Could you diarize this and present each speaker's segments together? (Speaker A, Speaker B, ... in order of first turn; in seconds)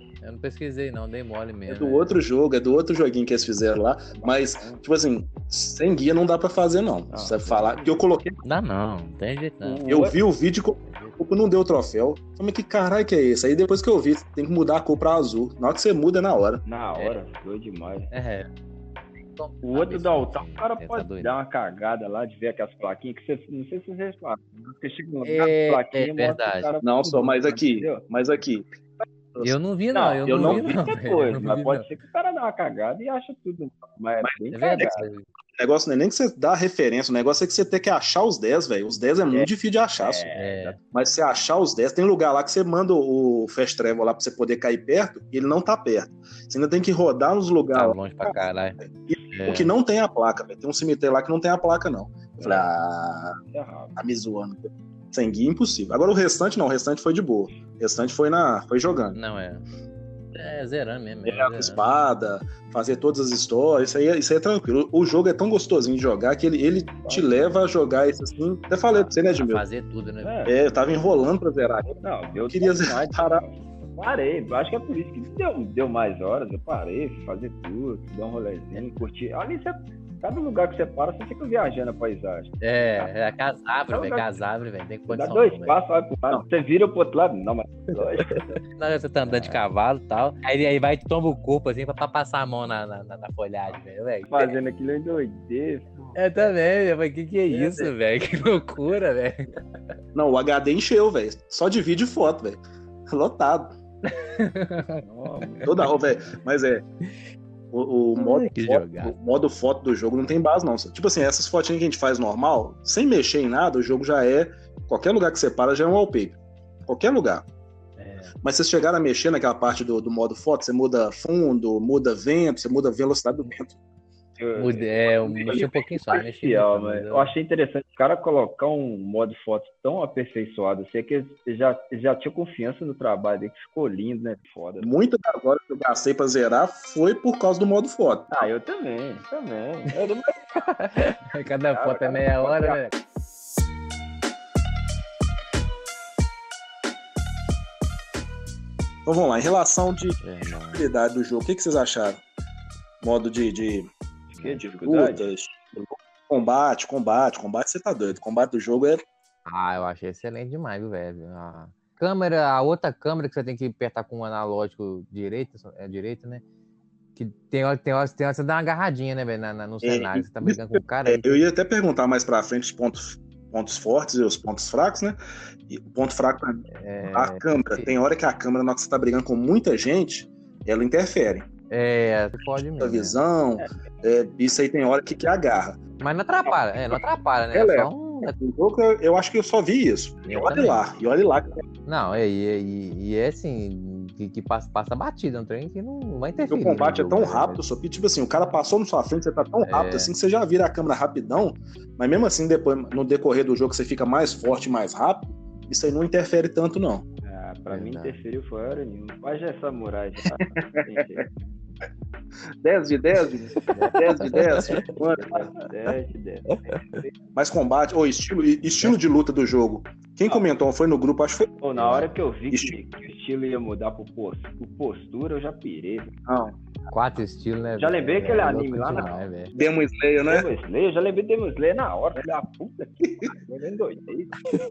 Speaker A: 0.2-2.1, 8.4-9.8, 10.8-11.2, 18.1-18.5, 19.3-21.3, 25.2-26.7, 29.4-31.8, 34.5-35.2, 40.3-40.8, 47.7-48.8, 49.3-49.7, 59.1-59.6, 60.3-61.8, 69.3-70.5, 82.6-85.8, 88.7-94.5, 96.1-99.5, 104.2-105.0, 108.2-109.2, 118.0-118.3, 124.5-127.3, 140.6-142.9, 150.2-150.8, 159.5-166.4, 167.2-171.4, 176.7-177.9, 181.7-183.2, 186.0-188.3, 190.2-190.8, 191.8-197.6, 199.7-200.1, 207.7-208.1, 213.6-214.9, 226.9-229.5
Speaker B: 1.7-8.4, 9.7-16.6, 26.8-29.5, 30.2-30.8, 34.2-34.9, 35.5-40.2, 40.9-53.4, 54.0-59.2, 61.2-69.6, 70.5-73.4, 100.1-103.8, 105.6-106.8, 107.7-117.4, 118.4-123.8, 134.8-138.4, 149.1-150.2, 150.7-152.2, 153.0-153.9, 154.6-159.0, 169.8-181.5, 182.8-185.8, 186.4-187.0, 187.5-191.6, 196.5-207.0, 210.8-211.2, 212.6-215.5, 217.3-222.7, 226.3-226.5, 229.5-230.4, 233.0-233.3
Speaker C: 4.2-4.8, 7.1-8.0, 9.8-10.1, 16.6-18.1, 19.6-28.0, 29.9-35.0, 39.3-40.8, 52.4-52.7, 53.5-53.9, 67.0-67.8, 70.2-70.6, 72.0-83.1, 83.9-84.3, 85.1-88.6, 89.3-89.6, 94.3-96.2, 97.5-97.9, 105.0-105.7, 124.4-134.9, 138.3-140.6, 141.7-142.8, 154.3-155.3, 207.2-211.3, 214.7-217.1, 221.6-226.2, 227.8-229.7, 230.3-234.4